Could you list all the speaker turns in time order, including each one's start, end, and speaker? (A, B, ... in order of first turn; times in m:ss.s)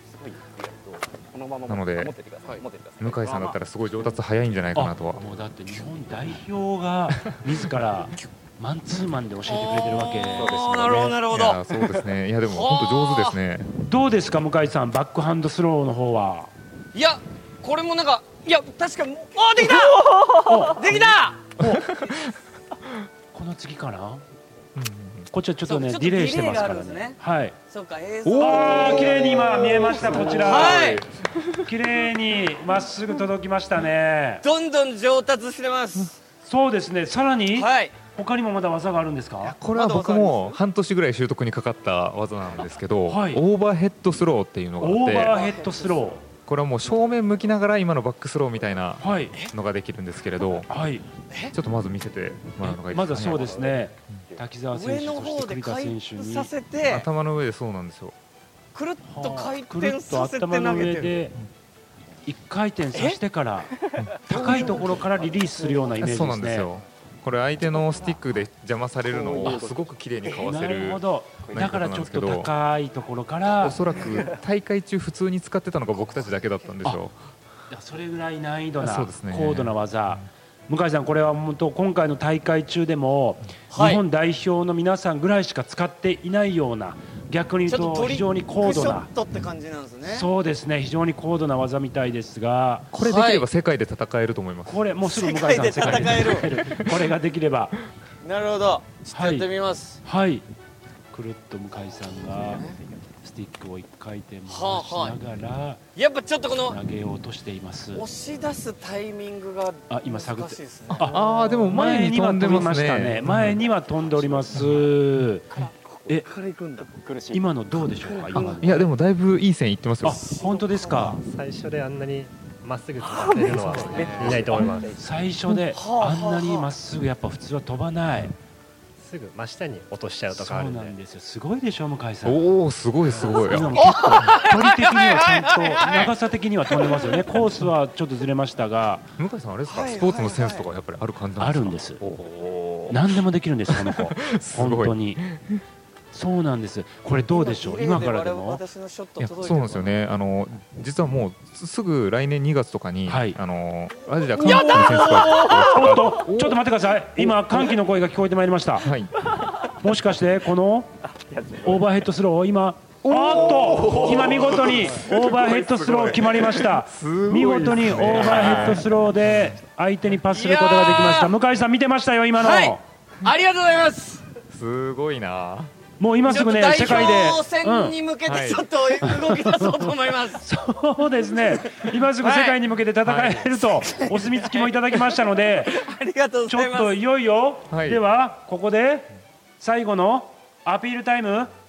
0:00.1-0:04.2 A
0:01.7-0:02.1 B
0:03.0-0:05.4 B
0:04.7-0:11.1 C
0:09.5-0:11.6 D
0:10.4-0:11.0 A
0:10.8-0:13.7 B
0:12.4-0:13.4 D
0:13.8-0:16.5 C
0:16.9-0:21.8 D
0:20.4-0:21.8 C
0:21.8-0:22.2 B
0:23.3-0:24.2 C
0:24.7-0:25.3 B
0:25.3-0:27.6 C
0:25.6-0:29.4 D
0:28.2-0:31.6 B
0:28.4-0:31.0 C
0:30.0-0:31.0 D
0:31.6-0:34.4 C
0:34.4-0:36.2 D
0:36.4-0:39.6 C
0:37.5-0:37.9 D
0:39.5-0:45.3 B
0:39.7-0:40.6 D
0:43.1-0:43.4 C
0:44.8-0:46.2 C
0:45.1-0:46.0 D
0:46.4-0:50.7 B
0:49.0-0:49.3 C
0:50.7-0:51.0 C
0:51.5-0:53.5 B
0:52.6-0:56.5 C
0:53.1-0:54.4 A
0:54.7-0:57.1 D
0:56.8-0:58.1 B
0:58.7-1:01.1 D
0:59.0-1:01.3 C
1:02.2-1:03.7 C
1:04.0-1:04.8 B
1:04.3-1:06.7 C
1:04.3-1:06.2 A
1:06.0-1:11.0 B
1:07.7-1:08.1 A
1:09.0-1:10.5 A
1:10.4-1:13.8 C
1:11.5-1:12.5 B
1:13.6-1:17.1 B
1:13.9-1:14.4 A
1:17.7-1:29.1 C
1:18.8-1:19.7 B
1:23.7-1:24.0 D
1:27.7-1:30.3 D
1:30.0-1:32.9 C
1:32.9-1:34.8 B
1:33.0-1:33.4 D
1:34.6-1:37.7 C
1:35.1-1:36.5 D
1:38.2-1:40.0 D
1:39.1-1:39.5 C
1:40.0-1:40.4 C
1:41.1-1:42.6 C
1:43.2-1:45.8 C
1:44.5-1:45.2 D
1:46.0-1:46.8 D
1:46.6-1:48.0 C
1:47.9-1:51.2 D
1:49.9-1:55.5 C
1:50.9-1:53.6 B
1:53.6-1:54.8 A
1:56.0-1:57.4 A
1:56.6-1:56.9 D
1:57.3-1:58.8 C
1:58.0-1:58.9 A
1:58.6-2:00.2 B
2:00.0-2:01.2 C
2:00.3-2:01.1 A
2:01.2-2:05.0 E
2:03.1-2:03.6 D
2:03.4-2:04.2 C
2:03.5-2:05.1 A
2:04.9-2:08.3 C
2:05.7-2:06.7 D
2:09.0-2:10.9 E
2:10.3-2:12.4 C
2:12.2-2:14.4 B
2:13.2-2:19.0 C
2:13.8-2:16.1 D
2:19.2-2:23.1 B
2:19.7-2:20.6 D
2:21.4-2:22.0 C
2:22.9-2:25.2 C
2:23.7-2:25.6 B
2:26.1-2:28.6 C
2:27.3-2:29.9 D
2:29.2-2:36.6 B
2:33.1-2:33.4 C
2:34.4-2:38.9 C
2:34.4-2:36.0 D
2:38.8-2:39.1 B
2:39.8-2:40.9 C
2:41.1-2:42.0 A
2:41.6-2:52.8 C
2:43.0-2:49.5 B
2:50.3-2:51.3 D
2:52.4-2:54.2 D
2:54.5-2:55.7 B
2:56.0-2:58.0 C
2:56.3-3:00.4 D
2:58.2-2:58.7 B
2:59.0-3:05.8 C
3:02.2-3:02.6 D
3:03.0-3:03.6 B
3:04.0-3:05.1 D
3:05.7-3:06.9 D
3:06.5-3:09.1 C
3:07.7-3:08.0 B
3:09.6-3:11.5 C